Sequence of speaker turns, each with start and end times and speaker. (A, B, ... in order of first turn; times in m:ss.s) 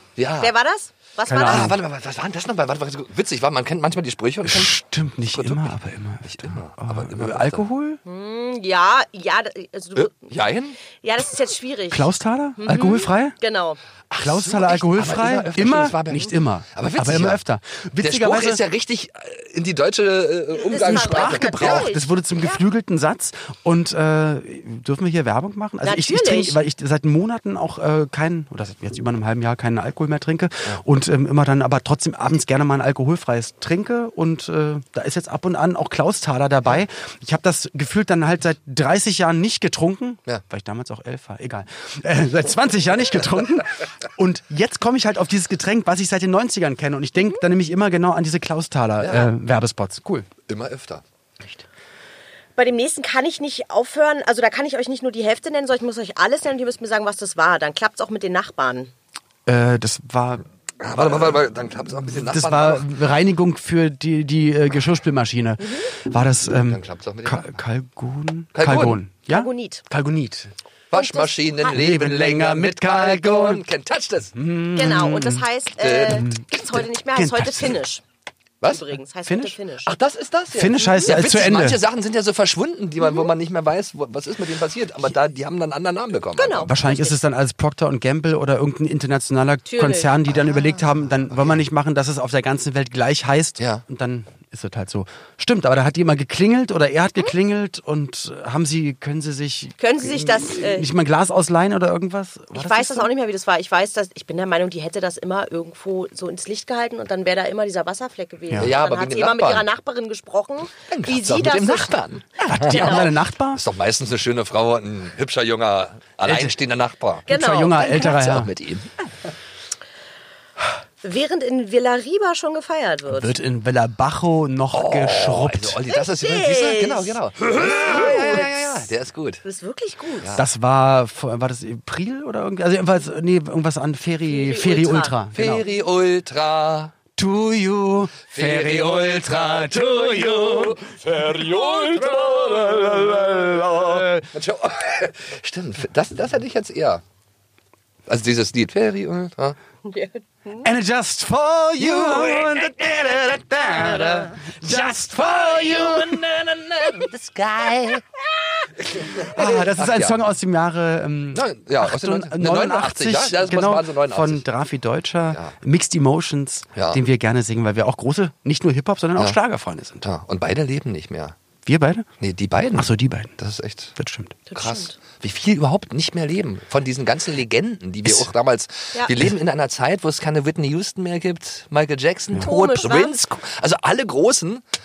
0:00.2-0:00.5 A
0:00.4-0:01.7 B
0:01.3-0:01.8 C
0:01.3-0:07.6 A
0:04.4-0:08.0 C
0:08.0-0:10.3 B
0:10.0-0:10.8 A
0:10.9-0:13.8 B
0:11.9-0:13.4 C
0:14.1-0:17.4 A
0:14.2-0:18.6 C
0:18.0-0:21.9 A
0:20.6-0:22.6 B
0:20.8-0:50.3 C
0:25.8-0:26.6 B
0:49.0-0:49.3 A
0:50.5-0:51.0 A
0:52.6-0:58.9 B
0:59.5-1:01.4 C
1:00.8-1:02.9 A
1:02.1-1:10.5 C
1:05.6-1:05.9 B
1:06.6-1:07.5 A
1:08.6-1:09.0 A
1:09.3-1:09.8 B
1:10.9-1:14.4 A
1:10.9-1:11.7 B
1:11.7-1:13.6 C
1:14.4-1:15.4 C
1:14.8-1:18.0 B
1:15.8-1:16.4 A
1:17.1-1:17.8 C
1:18.6-1:19.9 B
1:19.3-1:19.6 C
1:19.9-1:26.7 A
1:20.5-1:21.8 C
1:26.4-1:27.2 B
1:26.6-1:43.1 C
1:29.7-1:30.1 B
1:39.8-1:40.9 B
1:42.5-1:52.0 B
1:48.6-1:49.6 A
1:50.9-1:57.3 A
1:52.4-1:53.6 C
1:52.6-1:53.1 B
1:56.2-1:56.6 C
1:57.3-1:58.4 B
1:57.3-1:58.5 C
1:57.8-1:58.9 A
2:01.0-2:03.4 B
2:03.1-2:05.8 C
2:04.7-2:09.4 A
2:05.9-2:08.9 B
2:09.4-2:10.4 B
2:10.4-2:15.6 C
2:14.3-2:15.2 B
2:15.4-2:16.9 A
2:17.2-2:24.3 C
2:18.3-2:27.0 A
2:28.1-2:29.6 A
2:29.8-2:30.6 B
2:30.6-2:36.2 C
2:31.8-2:38.0 A
2:38.8-2:40.2 A
2:39.1-2:50.0 C
2:41.3-2:44.4 A
2:46.8-2:47.0 A
2:50.0-2:51.4 A
2:51.7-2:52.1 C
2:52.2-2:53.9 A
2:52.7-2:53.3 C
2:54.0-2:54.4 C
2:54.5-2:55.0 B
2:54.6-3:04.6 A
3:02.4-3:03.2 B